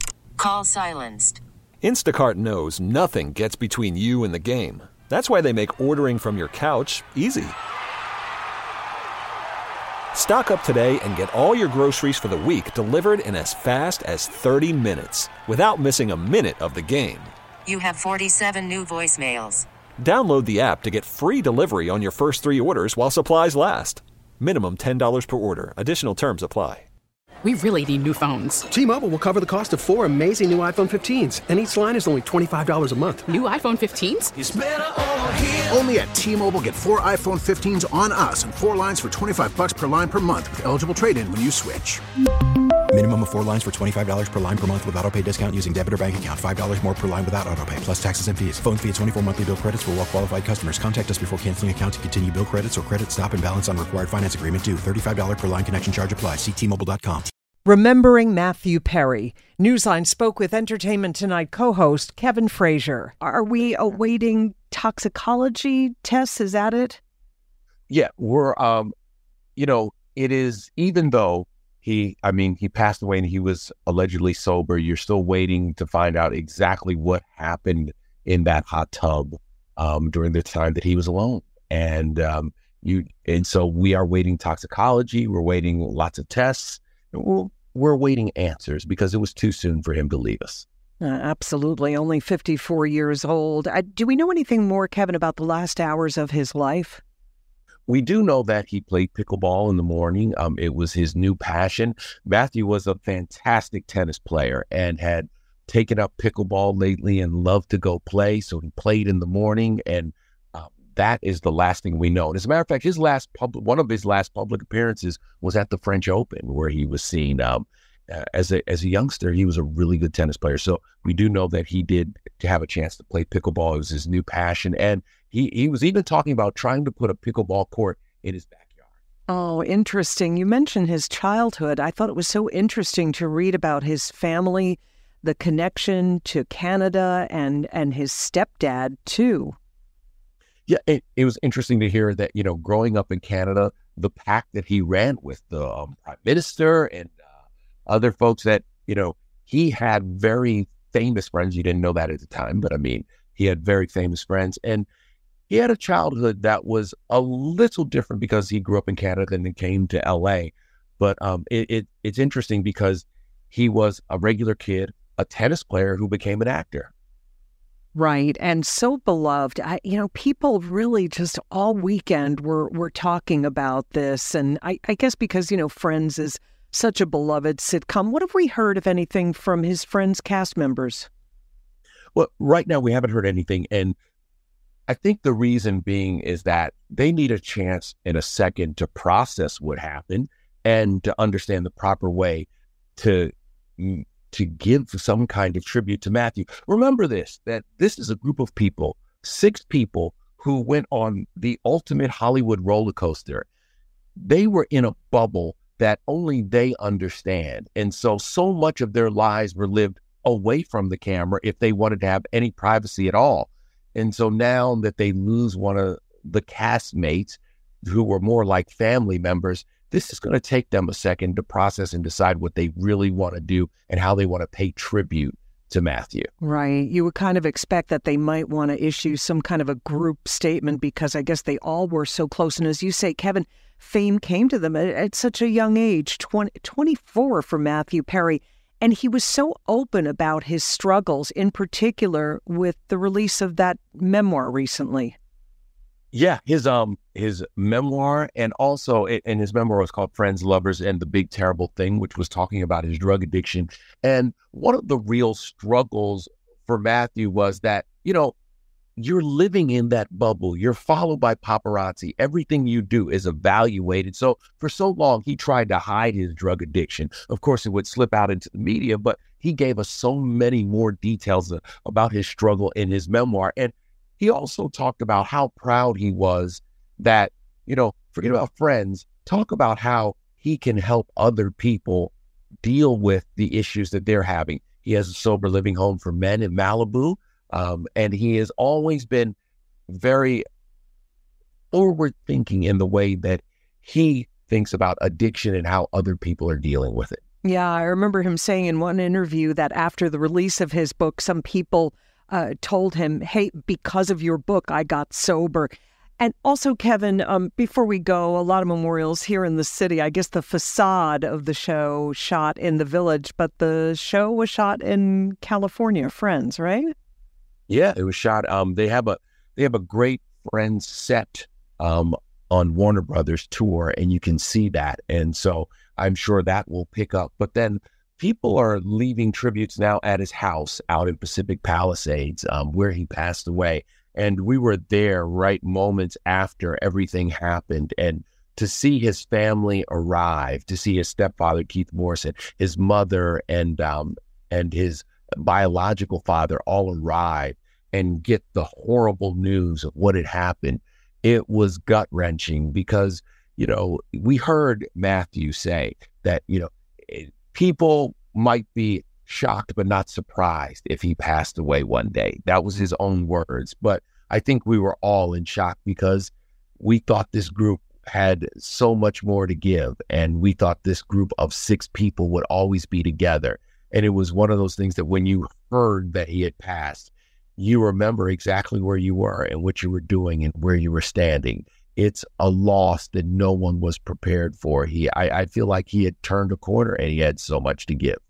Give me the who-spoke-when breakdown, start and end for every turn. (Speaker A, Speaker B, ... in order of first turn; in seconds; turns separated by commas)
Speaker A: 0.4-1.4, Speaker B: 1.8-7.6, Speaker B: 10.1-17.3, Speaker A: 17.7-19.7, Speaker B: 20.0-26.9, Speaker C: 27.4-28.7, Speaker D: 28.7-33.3, Speaker C: 33.3-34.3, Speaker E: 34.4-42.0, Speaker F: 42.9-57.3, Speaker G: 57.6-67.0, Speaker H: 67.9-68.9, Speaker H: 69.6-90.6, Speaker G: 91.0-97.0, Speaker H: 97.9-128.8, Speaker G: 129.3-139.6, Speaker H: 140.7-147.2, Speaker H: 147.9-154.9, Speaker H: 155.5-166.9, Speaker G: 167.9-181.1, Speaker H: 182.2-184.0, Speaker H: 184.9-203.5, Speaker H: 204.2-226.3, Speaker G: 226.4-245.2, Speaker H: 246.1-258.4, Speaker H: 259.0-289.4, Speaker H: 289.9-290.4, Speaker H: 291.7-297.2, Speaker G: 297.4-316.9, Speaker H: 317.7-388.2